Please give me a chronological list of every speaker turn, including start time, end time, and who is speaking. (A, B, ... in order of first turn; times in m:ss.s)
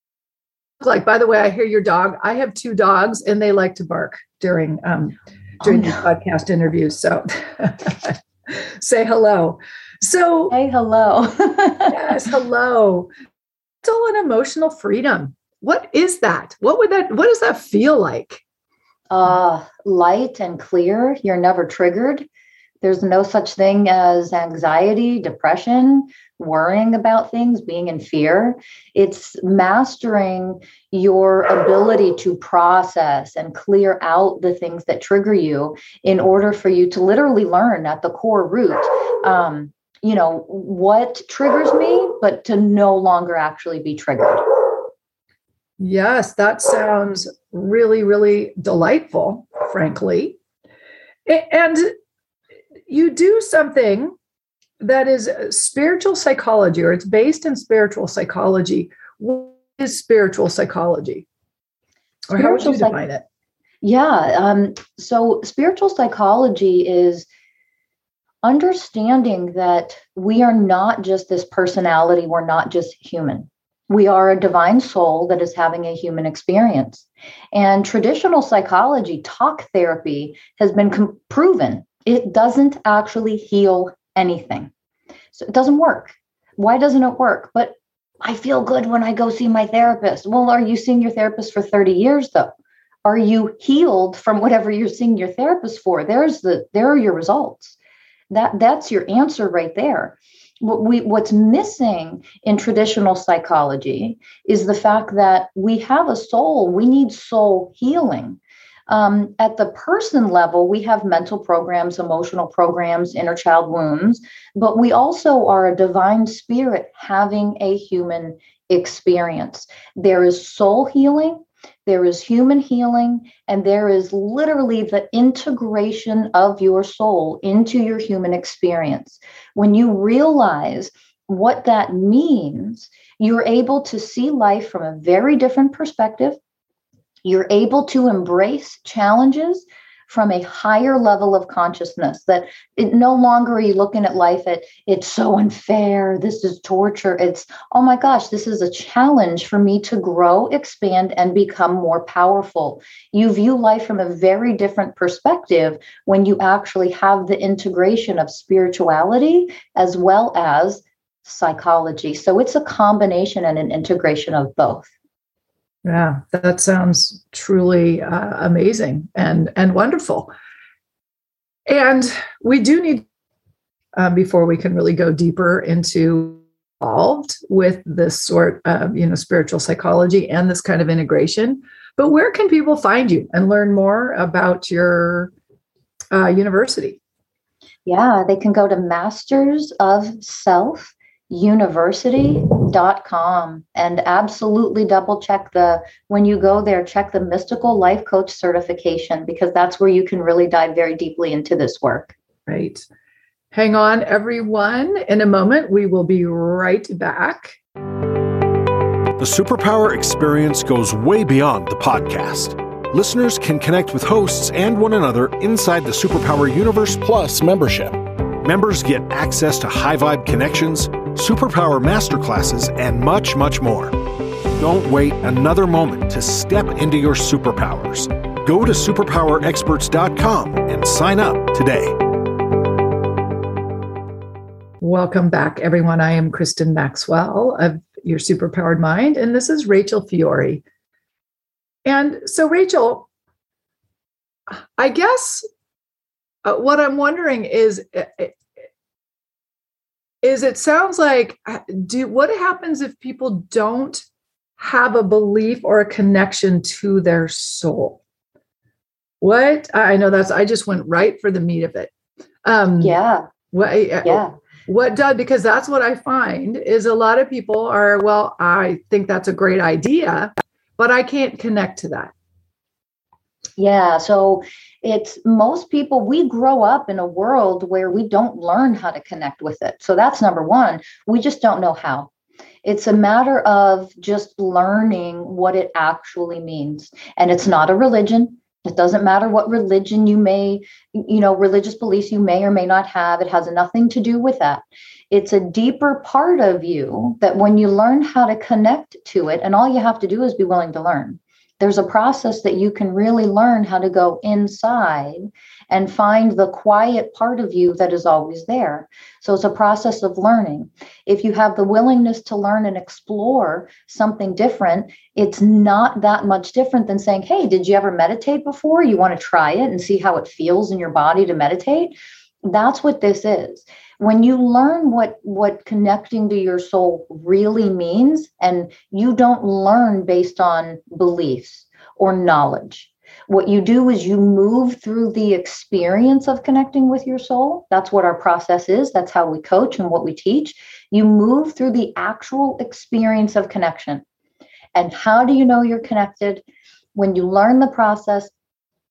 0:00.8-0:10.5 A
0:05.6-0:06.0 B
0:10.5-0:12.2 B
0:11.9-0:13.1 A
0:13.8-0:18.4 A
0:19.1-0:22.3 B
0:22.8-0:44.4 B
0:45.8-0:50.4 A
0:51.2-0:51.9 A
0:52.9-0:54.1 A
0:54.8-1:01.2 A
1:02.3-1:03.2 A
1:02.3-1:03.0 B
1:03.8-1:07.2 B
1:08.4-1:24.7 B
1:25.3-1:32.5 B
1:33.0-1:37.8 B
1:38.3-2:16.4 B
2:17.2-2:44.9 B
2:45.8-2:50.3 A
2:51.7-2:53.0 A
2:53.9-3:05.3 A
3:06.1-3:07.0 A
3:07.8-3:22.1 B
3:22.5-3:22.8 A
3:23.5-3:27.5 A
3:29.2-3:44.0 C
3:44.5-3:52.0 C
3:54.8-4:00.6 A
4:01.8-4:03.0 A
4:04.5-4:05.4 A
4:06.4-4:08.4 A
4:10.2-4:14.0 A
4:14.6-4:18.0 A
4:19.2-4:21.9 A
4:22.4-4:23.0 A
4:22.8-4:23.3 B
4:23.5-4:32.1 A
4:24.0-4:24.3 B
4:33.6-4:42.1 B
4:42.6-5:44.0 B
5:44.7-5:46.4 B
5:46.9-5:48.3 B